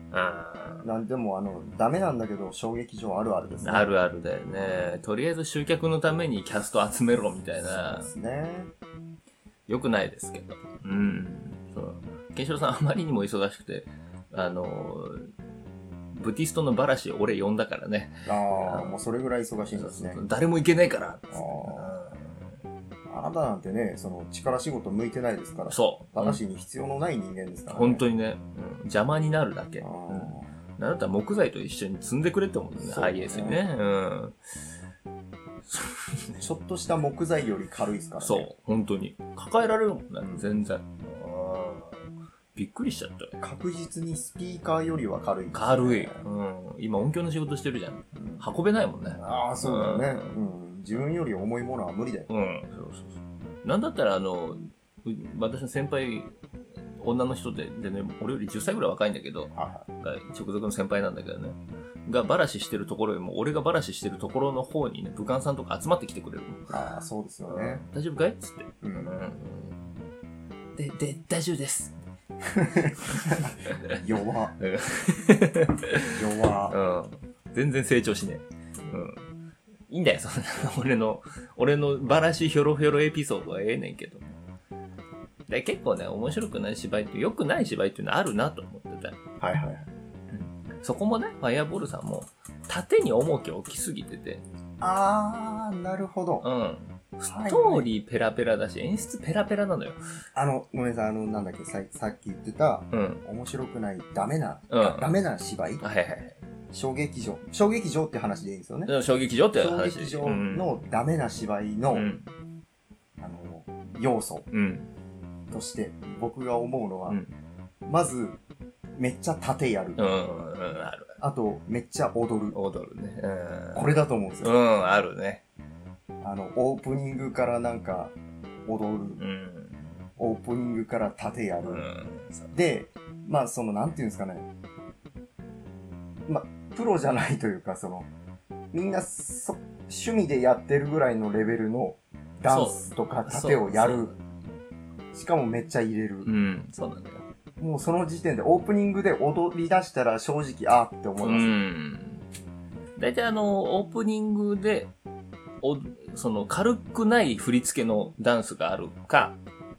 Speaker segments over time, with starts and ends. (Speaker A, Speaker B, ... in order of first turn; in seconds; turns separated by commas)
Speaker A: 0.1-0.8, Speaker B: 0.8-3.9, Speaker A: 3.6-8.1, Speaker B: 7.7-8.7, Speaker A: 9.7-15.3, Speaker A: 16.1-19.0, Speaker B: 18.3-20.2, Speaker A: 19.8-22.6, Speaker B: 21.3-21.9, Speaker B: 23.1-28.0, Speaker A: 25.7-26.4, Speaker A: 27.7-34.4, Speaker B: 29.8-30.5, Speaker B: 32.8-33.6, Speaker A: 35.7-36.4, Speaker B: 36.4-38.5, Speaker A: 38.2-43.4, Speaker B: 40.2-40.5, Speaker B: 43.4-46.2, Speaker A: 45.5-50.3, Speaker B: 48.2-48.4, Speaker B: 49.2-52.3, Speaker A: 52.3-56.4, Speaker A: 57.0-66.7, Speaker B: 59.5-59.9, Speaker B: 66.7-67.8, Speaker A: 67.5-69.8, Speaker B: 68.8-69.2, Speaker A: 70.8-72.0, Speaker B: 72.5-74.6, Speaker A: 73.0-74.0, Speaker A: 74.6-76.2, Speaker B: 76.1-76.8, Speaker A: 76.7-79.3, Speaker A: 79.9-84.4, Speaker A: 85.5-89.2, Speaker B: 89.4-89.9, Speaker A: 90.3-94.5, Speaker B: 94.8-96.5, Speaker A: 96.4-100.0, Speaker B: 97.3-97.9, Speaker B: 100.3-105.8, Speaker A: 102.9-103.2, Speaker A: 104.7-105.1, Speaker A: 105.8-106.4, Speaker B: 106.7-108.9, Speaker A: 108.9-110.8, Speaker B: 109.5-112.1, Speaker A: 111.9-112.3, Speaker B: 113.2-114.5, Speaker A: 114.5-114.9, Speaker B: 115.5-117.2, Speaker A: 117.1-117.3, Speaker B: 117.8-118.4, Speaker B: 119.0-120.0, Speaker A: 120.0-121.2, Speaker B: 121.2-122.6, Speaker A: 122.5-123.9, Speaker B: 123.7-124.5, Speaker A: 124.4-125.4, Speaker B: 126.2-129.2, Speaker A: 129.2-129.9, Speaker B: 130.2-131.8, Speaker A: 131.7-132.5, Speaker B: 132.5-134.5, Speaker B: 136.3-138.1, Speaker B: 138.7-144.1, Speaker A: 142.4-144.2, Speaker B: 145.1-146.3, Speaker A: 146.2-147.2, Speaker B: 147.6-151.5, Speaker A: 151.2-152.2, Speaker A: 153.0-154.9, Speaker A: 155.6-159.4